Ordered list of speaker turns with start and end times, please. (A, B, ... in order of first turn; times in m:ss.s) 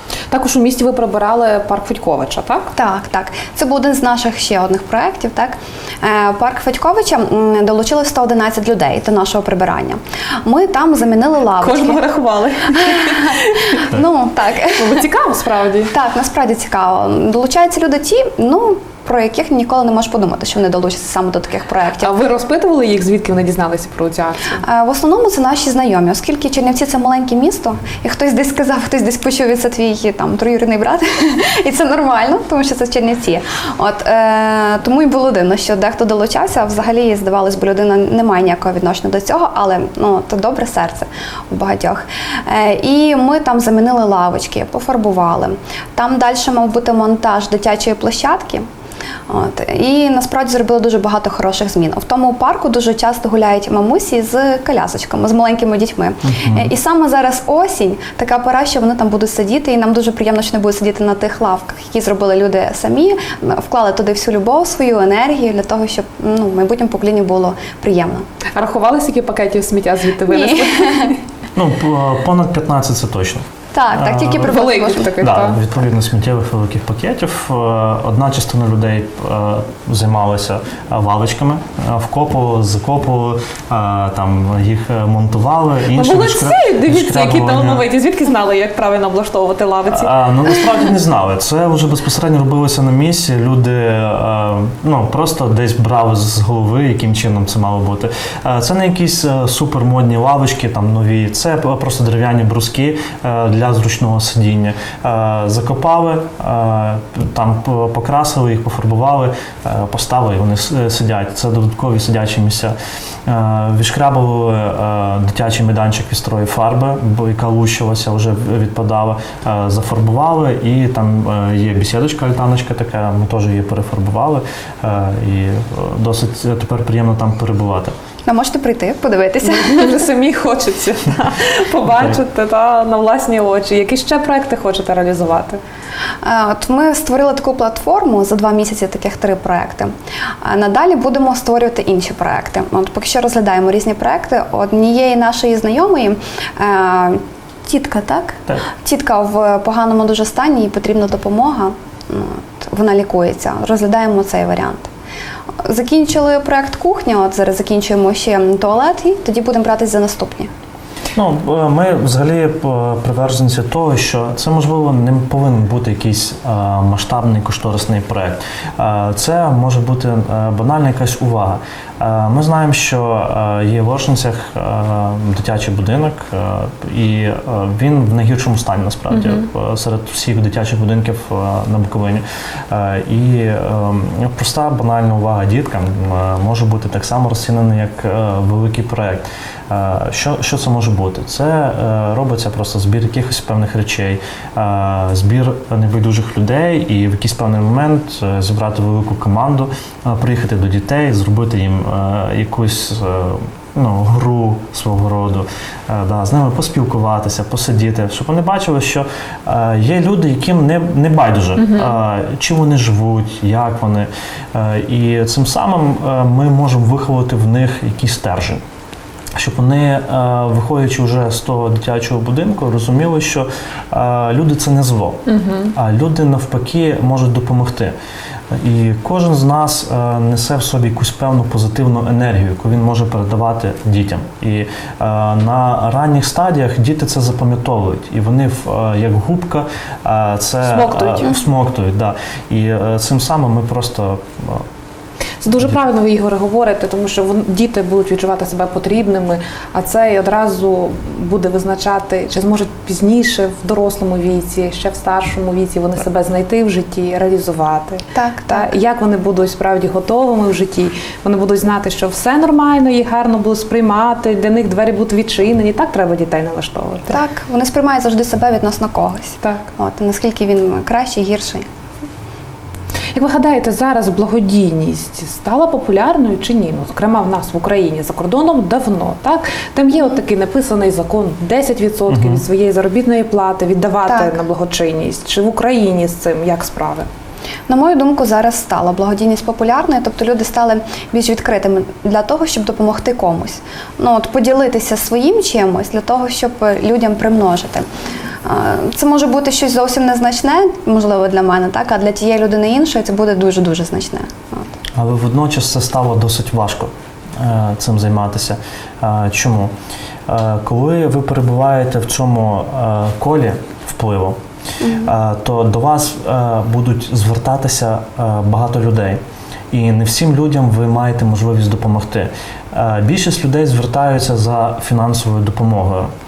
0:00.3-0:02.7 A
0:02.8-0:12.0 B
0:11.6-0:13.9 A
0:12.9-0:15.0 B
0:14.7-0:15.9 A
0:15.9-0:22.1 B
0:22.0-0:24.6 A
0:24.6-0:48.7 B
0:49.3-1:08.2 B
0:56.2-0:56.7 C
1:08.6-1:11.2 A
1:10.3-1:11.1 B
1:11.6-1:14.5 C
1:13.7-1:15.3 B
1:14.3-1:15.6 A
1:15.2-1:27.8 C
1:25.9-1:30.1 A
1:29.9-1:52.7 C
1:53.3-2:08.0 C
2:08.3-2:10.0 B
2:09.4-2:15.6 A
2:16.2-2:34.9 B
2:35.6-2:40.5 B
2:41.2-3:38.6 C
3:31.6-3:32.0 A
3:39.4-3:47.9 C
3:45.3-3:45.7 A
3:48.5-4:04.6 C
4:00.6-4:01.4 A
4:05.4-4:27.2 A
4:18.2-4:18.7 B
4:27.1-4:31.7 B
4:33.1-4:47.1 A
4:42.1-4:42.4 C
4:44.1-4:44.3 B
4:47.7-4:57.9 B
4:58.4-5:04.7 B
5:05.0-5:09.7 C
5:10.3-5:14.4 C
5:14.8-5:15.1 B
5:15.0-5:26.1 C